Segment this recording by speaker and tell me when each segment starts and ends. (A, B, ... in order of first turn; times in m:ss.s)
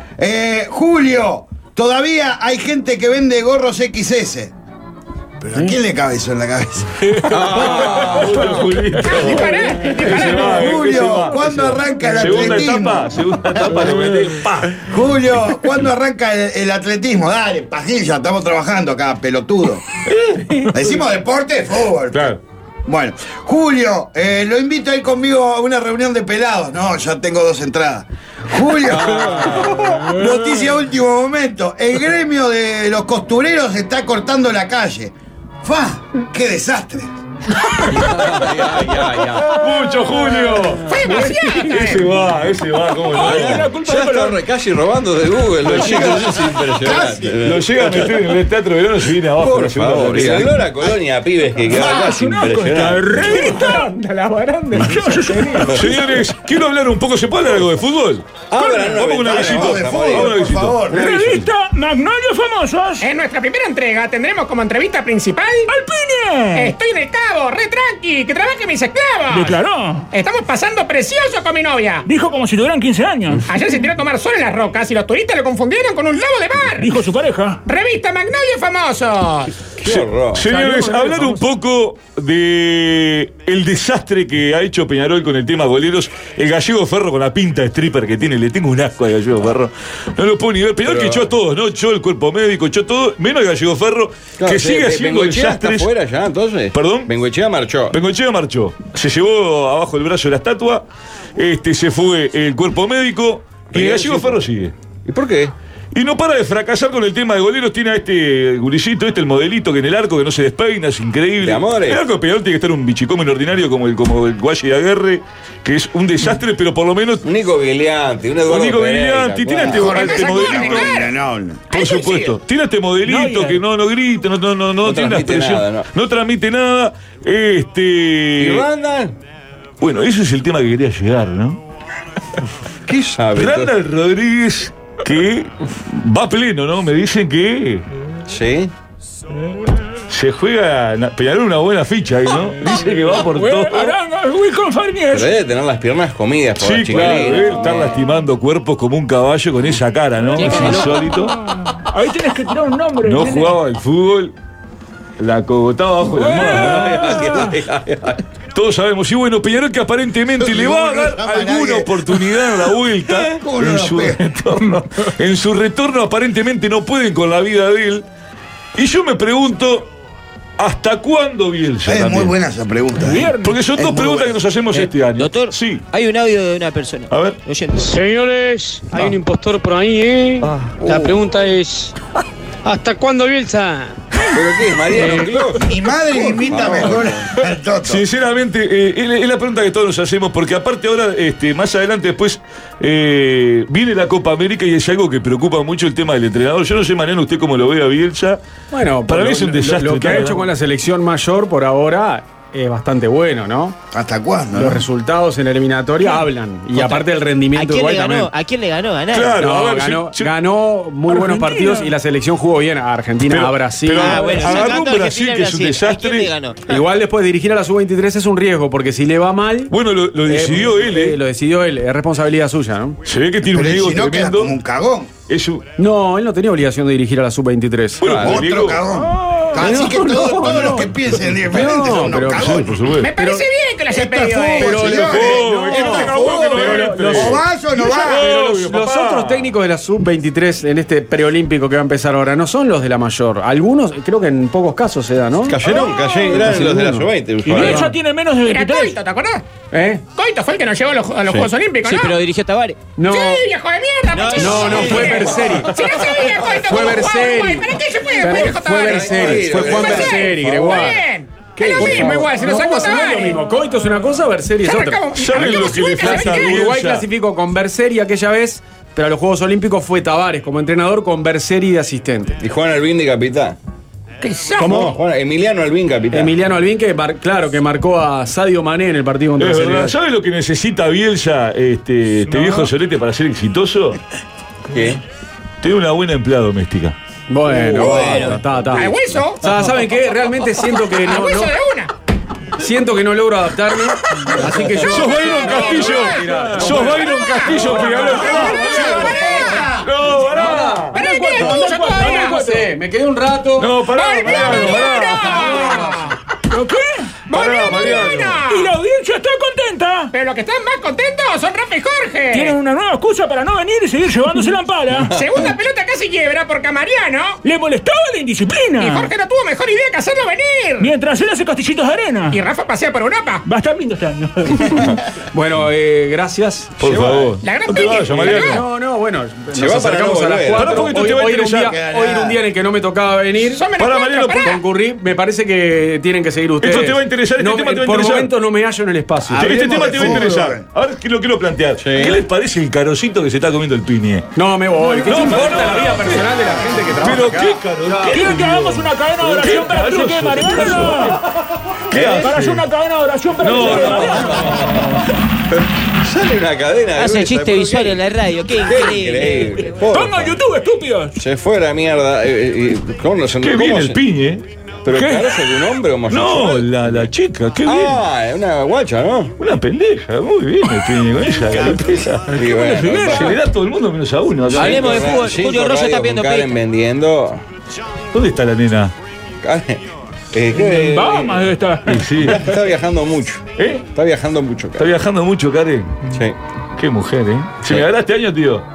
0:00.2-0:04.5 A
0:05.4-0:07.1 A
0:07.3-0:08.8 B
0:07.4-0:14.8 C
0:09.0-0:10.9 D
0:10.0-0:13.2 A
0:14.7-0:19.8 A
0:20.1-0:20.6 C
0:20.6-0:37.1 A
0:22.1-0:22.4 C
0:28.9-0:30.0 B
0:37.9-0:39.6 B
0:39.4-0:40.8 C
0:40.5-0:41.4 E
0:40.9-0:42.1 D
0:41.7-0:43.7 C
0:43.0-0:44.4 F
0:43.1-0:48.2 B
0:45.6-0:46.3 C
0:45.7-0:47.6 A
0:47.4-0:50.6 C
0:49.4-0:53.6 B
0:51.7-0:52.0 A
0:51.8-0:53.9 F
0:53.2-0:55.7 E
0:54.8-0:55.9 F
0:55.7-1:00.9 C
0:58.5-1:00.4 B
0:58.6-0:58.9 F
0:59.2-1:01.1 A
1:00.9-1:01.5 B
1:00.9-1:03.0 F
1:03.0-1:05.7 D
1:05.7-1:06.7 F
1:06.5-1:09.6 D
1:09.3-1:10.1 F
1:10.1-1:12.0 D
1:12.0-1:13.6 F
1:13.5-1:17.0 D
1:16.6-1:17.6 F
1:17.6-1:19.5 D
1:19.8-1:20.4 B
1:19.8-1:35.9 C
1:20.4-1:21.4 E
1:30.8-1:31.3 B
1:34.4-1:38.0 B
1:36.7-1:37.1 C
1:37.9-1:40.8 C
1:41.4-1:44.7 C
1:43.7-1:44.4 B
1:45.0-1:45.5 B
1:45.9-1:57.2 C
1:51.4-1:52.0 B
1:57.2-2:00.1 B
1:58.4-2:00.9 C
1:59.6-2:01.9 A
1:59.8-2:01.1 D
2:01.7-2:02.4 D
2:01.7-2:08.6 C
2:03.0-2:03.6 F
2:04.8-2:05.9 B
2:08.4-2:09.1 B
2:09.8-2:11.6 C
2:12.9-2:13.7 B
2:13.4-2:17.8 C
2:18.3-2:18.7 B
2:20.1-2:23.9 C
2:22.3-2:25.3 F
2:25.1-2:28.0 B
2:26.6-2:31.3 C
2:27.1-2:27.5 F
2:30.3-2:31.1 G
2:31.8-2:33.6 F
2:33.0-2:34.3 C
2:35.2-2:37.2 C
2:36.1-2:37.5 F
2:36.2-2:38.2 B
2:38.5-2:48.0 C
2:40.4-2:42.3 A
2:43.2-2:44.2 A
2:48.8-2:49.9 C
2:50.6-2:52.3 C
2:51.8-2:54.4 A
2:53.0-2:53.6 F
2:53.4-2:55.8 C
2:54.7-2:58.0 G
2:57.1-2:57.4 C
2:57.9-3:01.9 H
3:00.6-3:01.1 G
3:02.6-3:04.0 H
3:04.3-3:05.6 B
3:04.9-3:05.4 H
3:05.6-3:08.0 A
3:06.2-3:07.3 B
3:07.8-3:18.4 C
3:18.7-3:23.8 E
3:19.0-3:20.5 C
3:23.9-3:24.8 A
3:24.5-3:28.3 E
3:26.7-3:29.4 G
3:29.1-3:30.3 C
3:29.4-3:34.6 E
3:31.0-3:31.9 F
3:33.3-3:36.3 C
3:33.9-3:36.6 G
3:36.7-3:43.0 E
3:39.7-3:41.2 C
3:43.0-3:44.5 C
3:43.5-3:45.1 A
3:45.3-3:45.6 C
3:45.8-3:48.1 E
3:48.0-3:48.9 C
3:48.0-3:48.4 B
3:48.1-3:52.8 A
3:49.2-3:49.7 F
3:49.6-3:50.9 E
3:51.5-3:53.4 E
3:52.2-3:53.1 C
3:53.0-3:54.8 D
3:53.9-3:58.2 A
3:54.4-4:07.9 E
3:54.6-3:59.5 C
4:05.4-4:07.9 B
4:07.4-4:09.0 F
4:08.4-4:09.4 D
4:09.7-4:10.0 E
4:10.1-4:12.1 D
4:11.2-4:11.5 B
4:11.8-4:12.8 G
4:13.0-4:13.4 E
4:13.0-4:23.4 D
4:14.1-4:15.9 G
4:14.4-4:15.8 E
4:16.5-4:21.0 E
4:18.6-4:20.9 B
4:21.6-4:25.0 E
4:21.8-4:22.2 B
4:24.6-4:26.7 D
4:25.1-4:27.0 C
4:26.0-4:32.4 E
4:32.4-4:33.6 B
4:34.5-4:35.0 E
4:34.6-4:36.3 B
4:36.1-4:40.0 E
4:39.4-4:44.0 C
4:42.3-4:42.7 F
4:44.7-4:45.0 B
4:45.6-4:46.9 C
4:47.3-4:51.5 E
4:47.5-4:48.4 B
4:47.8-4:48.4 G
4:48.7-4:49.4 D
4:51.0-4:51.9 D
4:52.6-4:59.2 E
4:54.8-4:59.2 C
4:55.0-4:59.8 D
4:58.3-4:59.9 A
4:59.7-5:01.0 C
5:00.2-5:03.7 E
5:00.9-5:02.4 D
5:00.9-5:02.7 F
5:03.6-5:05.7 C
5:03.9-5:06.1 D
5:04.3-5:04.8 E
5:05.3-5:05.9 E
5:06.5-5:07.1 F
5:07.3-5:08.7 D
5:07.3-5:08.4 C
5:07.7-5:10.1 F
5:10.1-5:12.6 D
5:12.3-5:15.2 F
5:15.1-5:17.4 D
5:17.4-5:19.1 F
5:18.8-5:20.9 D
5:20.8-5:22.4 F
5:22.3-5:23.4 D
5:23.4-5:24.8 F
5:25.3-5:26.8 E
5:26.8-5:28.7 C
5:26.8-5:27.3 B
5:27.4-5:28.6 D
5:28.2-5:33.6 E
5:29.5-5:31.1 B
5:30.5-5:31.8 C
5:31.6-5:32.4 A
5:33.5-5:34.6 D
5:33.8-5:34.6 C
5:34.4-5:40.2 E
5:36.6-5:38.3 C
5:39.2-5:40.7 A
5:39.4-5:44.3 C
5:41.8-5:42.2 B
5:44.4-5:48.4 E
5:45.0-5:51.2 C
5:45.0-5:45.5 F
5:48.1-5:51.2 F
5:51.9-5:52.7 C
5:51.9-5:52.3 B
5:52.2-5:54.6 F
5:53.4-5:54.5 C
5:53.5-5:55.0 B
5:55.5-6:00.4 B
5:57.0-5:59.8 G
5:59.8-6:01.1 F
6:01.2-6:04.0 B
6:03.4-6:04.4 C
6:04.8-6:07.0 B
6:04.9-6:05.6 F
6:06.1-6:08.0 C
6:07.6-6:09.3 B
6:09.4-6:15.2 C
6:11.7-6:13.4 B
6:12.3-6:13.4 F
6:14.5-6:16.5 G
6:14.5-6:17.4 B
6:18.1-6:18.9 C
6:19.4-6:21.5 B
6:20.5-6:22.4 F
6:21.9-6:22.4 C
6:22.2-6:24.9 B
6:23.6-6:23.9 C
6:24.8-6:26.0 C
6:26.1-6:26.4 B
6:26.8-6:28.6 C